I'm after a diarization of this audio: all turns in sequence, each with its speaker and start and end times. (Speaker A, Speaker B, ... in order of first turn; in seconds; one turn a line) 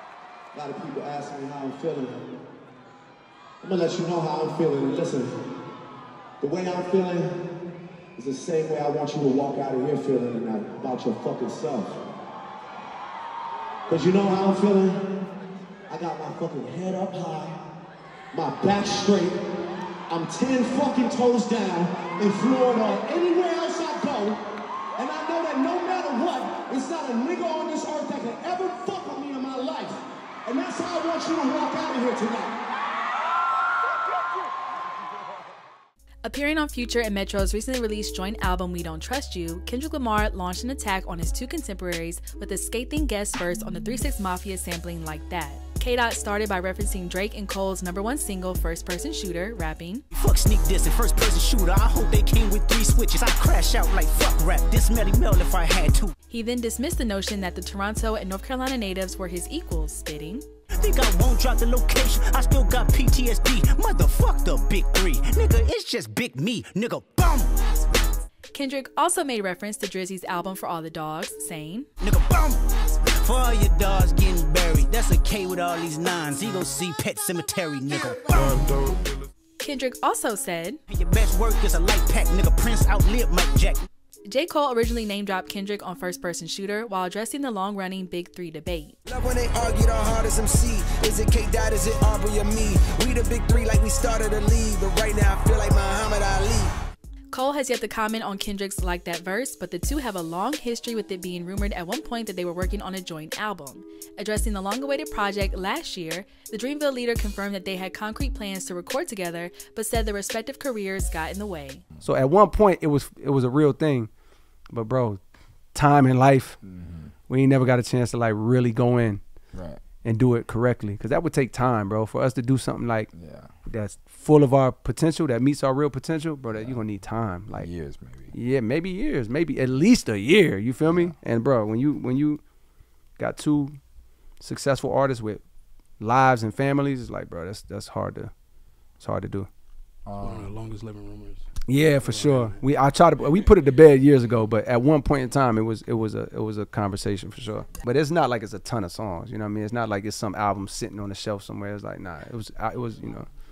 Speaker A: 0.5-2.2
Speaker A: 3.6-5.3
Speaker A: 6.4-7.3
Speaker A: 8.2-12.0
Speaker A: 13.9-15.1
Speaker A: 15.9-17.6
Speaker A: 18.3-19.4
Speaker A: 20.1-24.4
Speaker A: 25.0-32.5
Speaker B: 36.2-50.0
Speaker C: 50.1-56.1
Speaker B: 56.3-60.4
Speaker C: 60.8-67.5
Speaker B: 68.5-71.9
Speaker C: 72.0-78.7
Speaker D: 78.7-78.9
Speaker B: 79.6-80.8
Speaker C: 80.9-83.8
Speaker B: 84.3-89.0
Speaker D: 89.0-96.7
Speaker B: 97.3-111.8
Speaker E: 112.0-114.1
Speaker E: 114.7-115.2
Speaker E: 115.7-116.6
Speaker F: 116.6-117.2
Speaker E: 117.2-119.2
Speaker F: 119.5-119.9
Speaker E: 120.0-123.1
Speaker F: 123.1-123.5
Speaker E: 123.7-127.7
Speaker F: 126.5-128.3
Speaker E: 128.3-132.4
Speaker F: 130.8-131.2
Speaker E: 133.2-133.8
Speaker E: 134.3-135.4
Speaker E: 136.0-138.3
Speaker E: 138.9-139.5
Speaker F: 140.1-140.6
Speaker G: 140.1-143.8
Speaker E: 141.7-153.3